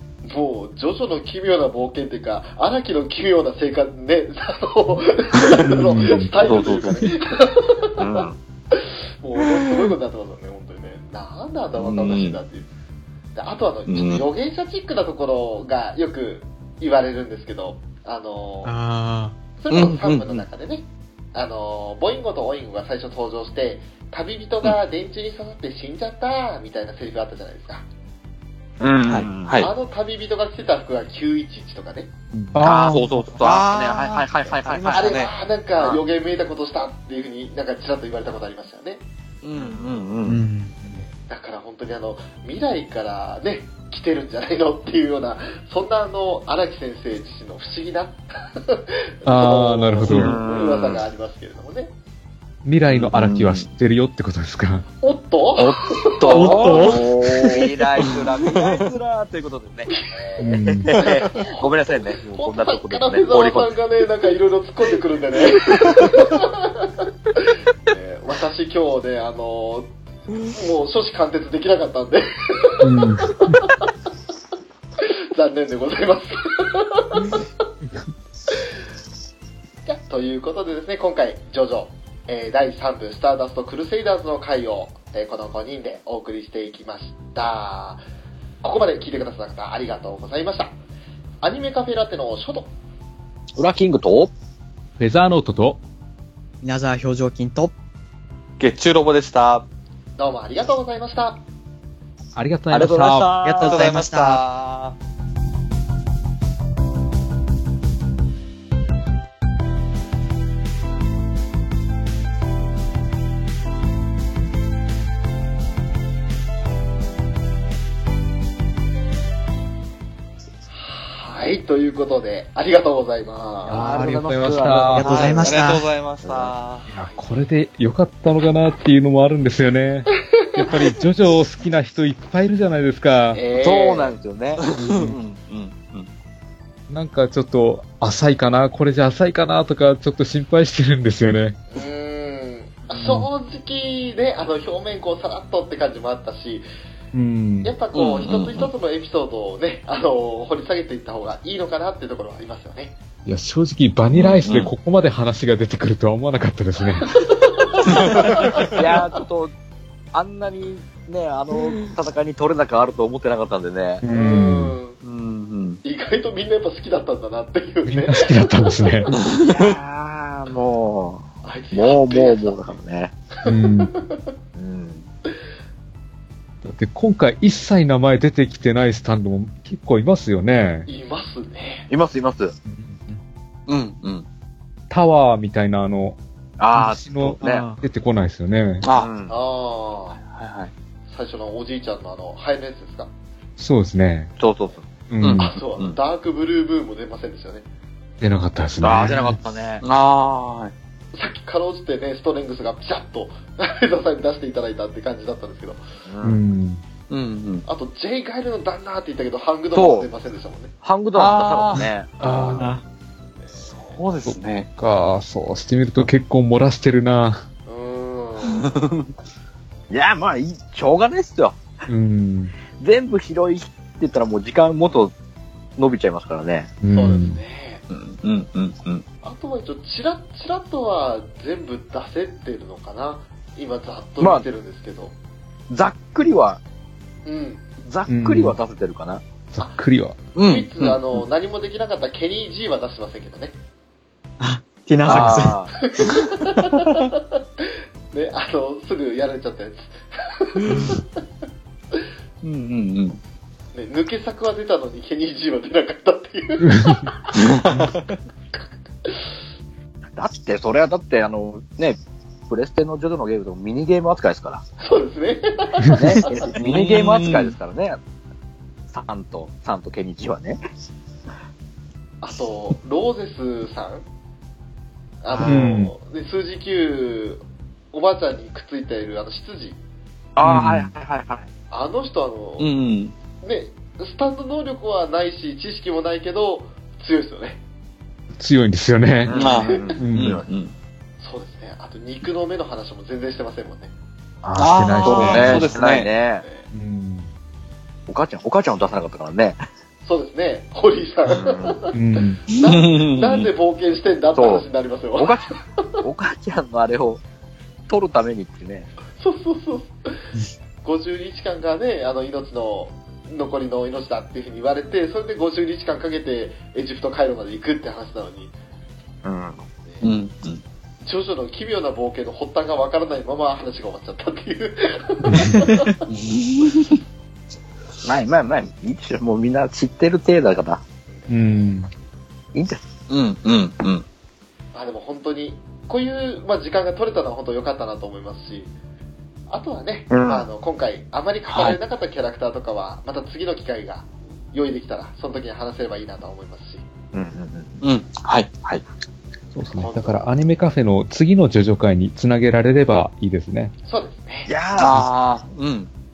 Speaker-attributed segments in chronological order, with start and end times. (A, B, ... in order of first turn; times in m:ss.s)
0:00.2-0:12.7 A
0:05.7-0:06.4 B
0:06.4-0:07.1 C
0:08.0-0:08.4 C
0:11.8-0:12.4 D
0:13.3-0:18.8 A
0:13.9-0:14.2 D
0:18.6-0:19.4 E
0:19.6-0:27.8 A
0:19.7-0:20.4 D
0:28.8-0:29.6 C
0:29.0-0:29.7 D
0:29.6-0:32.1 A
0:32.4-0:33.0 B
0:32.6-0:35.3 C
0:32.6-0:35.3 D
0:34.9-0:39.0 A
0:39.4-0:40.4 D
0:39.6-0:40.0 C
0:40.2-0:40.9 E
0:41.2-0:51.9 A
0:49.2-0:50.4 B
0:50.0-0:51.0 C
0:52.6-0:54.9 B
0:52.9-0:53.7 D
0:55.0-0:57.7 A
0:55.6-1:03.7 C
0:56.3-0:57.1 B
0:56.6-0:57.5 D
0:58.1-0:58.8 D
0:59.9-1:07.0 A
1:00.4-1:01.0 B
1:07.9-1:09.9 A
1:10.4-1:13.8 A
1:12.8-1:13.6 B
1:15.0-1:17.4 A
1:19.8-1:28.0 A
1:28.6-1:30.7 A
1:31.4-1:32.7 A
1:33.6-1:34.3 C
1:35.0-1:35.8 B
1:36.6-1:37.7 E
1:38.6-1:39.6 D
1:40.2-1:41.4 A
1:42.3-1:43.4 B
1:42.7-1:43.8 C
1:43.4-1:44.4 E
1:43.6-1:45.0 D
2:00.7-2:04.0 A
2:03.6-2:05.3 B
2:03.7-2:05.6 C
2:04.9-2:05.9 E
2:05.0-2:06.9 D
2:06.2-2:06.5 C
2:06.9-2:13.4 B
2:07.0-2:07.2 A
2:10.4-2:10.8 A
2:13.3-2:14.2 A
2:13.6-2:14.6 C
2:14.6-2:16.1 D
2:14.8-2:15.1 B
2:16.9-2:21.6 B
2:21.7-2:26.6 A
2:22.9-2:23.3 B
2:27.1-2:27.7 B
2:27.6-2:33.0 A
2:27.9-2:28.7 D
2:33.2-2:37.2 B
2:34.1-2:34.7 D
2:37.2-2:39.0 A
2:37.8-2:38.7 D
2:38.7-2:39.5 C
2:40.1-2:44.0 C
2:44.0-2:44.8 B
2:44.1-2:45.0 A
2:45.0-2:45.8 D
2:45.8-2:49.1 A
2:47.8-2:49.1 B
2:49.2-2:53.1 C
2:51.4-2:52.8 A
2:53.4-2:54.3 A
2:53.4-2:53.9 B
2:54.6-2:55.0 C
2:56.6-3:00.9 B
3:00.9-3:01.9 A
3:01.9-3:02.5 C
3:02.7-3:03.1 B
3:03.7-3:04.2 D
3:04.9-3:06.2 B
3:06.6-3:07.6 C
3:06.7-3:08.8 B
3:07.4-3:07.8 E
3:08.8-3:09.1 D
3:08.9-3:09.3 C
3:09.3-3:10.2 A
3:10.2-3:10.7 D
3:11.1-3:13.1 A
3:13.6-3:14.3 B
3:14.4-3:15.4 C
3:15.1-3:15.6 B
3:15.2-3:15.9 D
3:15.3-3:17.7 A
3:18.2-3:19.4 B
3:18.8-3:19.8 C
3:19.8-3:20.7 D
3:21.1-3:25.8 A
3:26.1-3:26.4 C
3:26.2-3:26.8 B
3:27.1-3:27.6 D
3:27.6-3:30.7 A
3:29.7-3:30.1 C
3:30.8-3:32.1 C
3:31.1-3:32.7 D
3:32.2-3:32.7 B
3:32.5-3:32.8 E
3:33.4-3:34.0 A
3:33.7-3:34.7 D
3:34.3-3:37.4 B
3:37.7-3:38.8 A
3:38.6-3:39.1 D
3:39.9-3:41.6 C
3:41.9-3:42.6 B
3:42.8-3:45.1 C
3:45.8-3:46.7 C
3:46.8-3:47.4 B
3:46.9-3:47.8 A
3:47.9-3:49.0 D
3:49.2-3:55.1 A
3:54.2-3:54.4 C
3:55.7-3:56.6 C
3:57.2-3:57.6 A
3:57.8-3:59.2 C
3:58.1-3:58.6 B
3:59.5-4:00.2 B
4:00.4-4:01.0 D
4:00.4-4:03.6 A
4:04.4-4:05.6 E
4:05.0-4:05.7 C
4:05.1-4:05.4 D
4:05.8-4:11.2 A
4:12.4-4:13.2 D
4:13.7-4:17.3 A
4:16.6-4:17.1 B
4:17.3-4:18.0 D
4:20.2-4:22.0 C
4:22.5-4:24.6 C
4:24.8-4:26.4 A
4:25.9-4:28.0 C
4:26.6-4:27.5 D
4:28.9-4:30.6 C
4:32.2-4:34.0 A
4:35.2-4:39.8 A
4:35.4-4:35.9 B
4:40.4-4:41.4 C
4:40.4-4:40.9 B
4:41.7-4:42.7 A
4:42.6-4:43.1 D
4:43.4-4:47.6 A
4:48.3-4:49.4 B
4:49.2-4:50.4 C
4:49.3-4:50.7 D
4:49.3-4:50.0 A
4:50.0-4:50.4 B
4:51.2-4:53.9 A
4:54.4-4:55.8 B
4:54.6-4:56.1 D
4:55.0-4:56.4 C
4:56.4-4:56.7 A
4:56.7-4:57.3 B
4:58.1-4:59.6 C
5:00.0-5:02.0 A
5:01.3-5:01.8 C
5:01.9-5:02.4 B
5:02.5-5:06.0 A
5:02.6-5:03.2 D
5:04.4-5:04.6 C
5:05.2-5:05.5 C
5:06.0-5:07.2 C
5:07.9-5:08.9 C
5:09.2-5:10.2 A
5:10.8-5:18.5 A
5:19.2-5:19.6 C
5:20.0-5:20.6 D
5:21.0-5:26.0 A
5:25.2-5:25.7 B
5:26.1-5:27.0 C
5:28.0-5:30.8 C
5:31.1-5:31.9 A
5:31.3-5:31.9 B
5:32.5-5:32.9 C
5:33.1-5:34.0 D
5:34.7-5:38.7 A
5:39.5-5:46.8 A
5:40.1-5:40.5 C
5:47.1-5:47.8 C
5:47.8-5:48.8 D
5:49.5-5:53.7 B
5:49.7-5:50.3 A
5:53.8-5:54.5 A
5:54.5-5:55.0 C
5:54.8-5:55.9 D